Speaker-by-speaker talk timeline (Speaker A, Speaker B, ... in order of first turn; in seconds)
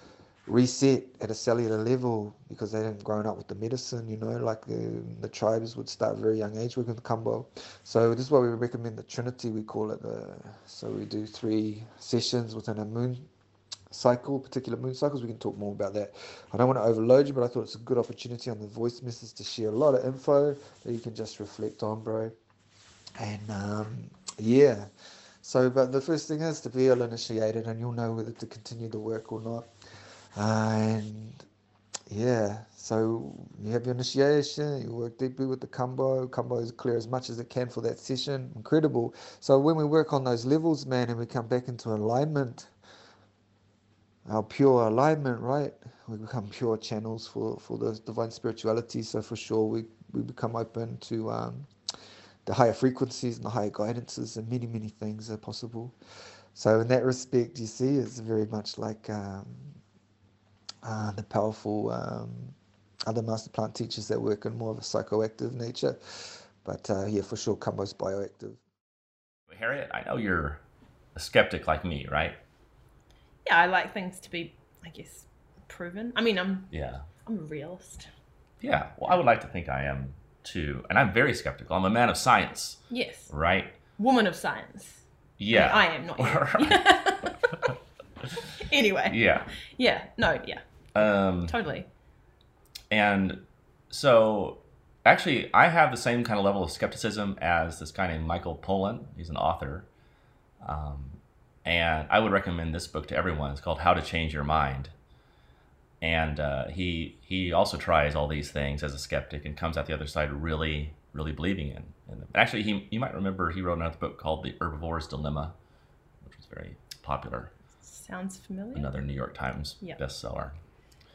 Speaker A: 0.5-13.3, 13.9-22.3, 23.2-24.9, 25.4-29.7, 30.3-31.4, 32.1-42.7, 44.2-51.7, 52.4-55.9, 56.5-59.8, 60.8-62.5, 63.1-68.6
Speaker B: 69.5-70.6, 71.2-72.4, 76.7-77.0, 78.6-83.7, 85.4-86.8, 89.1-89.5, 90.9-91.5, 92.9-99.9, 100.6-104.9, 106.0-115.5, 116.2-117.5, 118.7-120.5
Speaker C: 73.5-76.7, 77.2-78.1, 82.9-83.3, 84.0-87.7, 88.5-90.6, 91.4-91.9, 117.8-118.9